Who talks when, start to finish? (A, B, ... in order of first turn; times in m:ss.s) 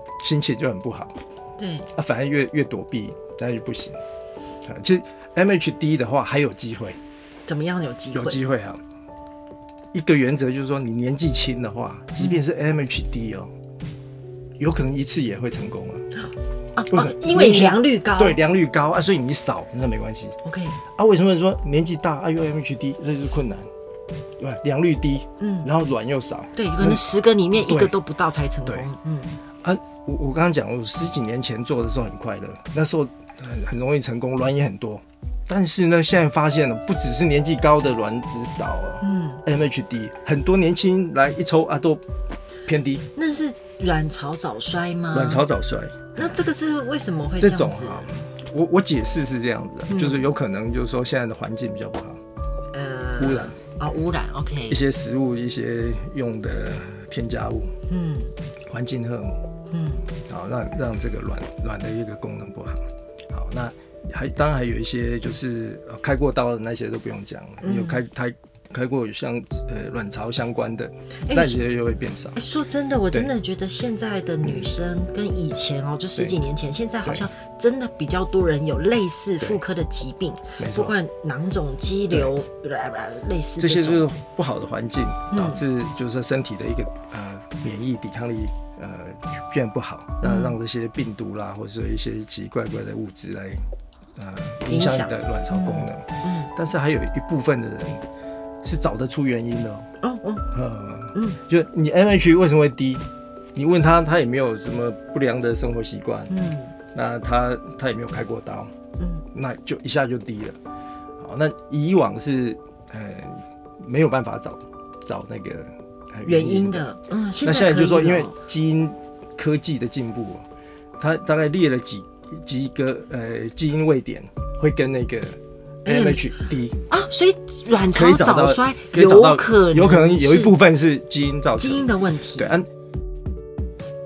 0:00.2-0:01.2 A
0:01.6-0:01.9 B
0:01.9-0:04.0 A
0:04.6-0:07.0 A
0:07.4-0:08.4 B
0:08.1-0:08.8 A
0:09.9-0:13.5 A
0:14.6-0:16.1 A
0:16.8-0:18.4 B
0:16.9-0:20.4 A
0:20.4-0:20.8 B
0:21.0-0:23.7 A
0:24.4-0:27.0 A
0:25.4-0:25.7 B
0:26.6-0:29.4 B
0:27.6-0:27.9 A
0:29.6-0:42.0 A
0:39.0-0:39.4 B
0:42.7-0:43.0 A
0:43.1-0:45.4 B
0:45.1-0:46.4 A
0:46.1-0:48.2 B
0:47.4-0:52.2 A
0:49.9-0:50.2 B
0:52.7-0:54.8 B
0:53.2-0:53.5 A
0:54.7-0:57.7 A
0:57.9-0:58.3 B
0:58.7-0:59.4 A
0:59.7-1:00.1 B
1:00.3-1:12.4 A
1:07.6-1:08.0 B
1:11.2-1:11.6 B
1:12.3-1:24.0 B
1:14.4-1:14.7 A
1:20.6-1:20.9 A
1:23.6-1:38.0 A
1:25.3-1:25.6 B
1:30.2-1:30.5 B
1:34.6-1:36.5 B
1:38.6-1:39.9 A
1:40.0-1:40.5 B
1:40.5-1:46.3 A
1:46.3-1:46.7 B
1:46.9-1:48.7 A
1:49.0-1:49.2 B
1:49.3-1:50.6 A
1:51.2-1:56.9 A
1:56.2-1:58.4 B
1:57.4-2:00.5 A
2:01.0-2:06.8 A
2:05.8-2:06.3 B
2:06.9-2:10.5 B
2:07.9-2:12.7 A
2:11.6-2:12.6 B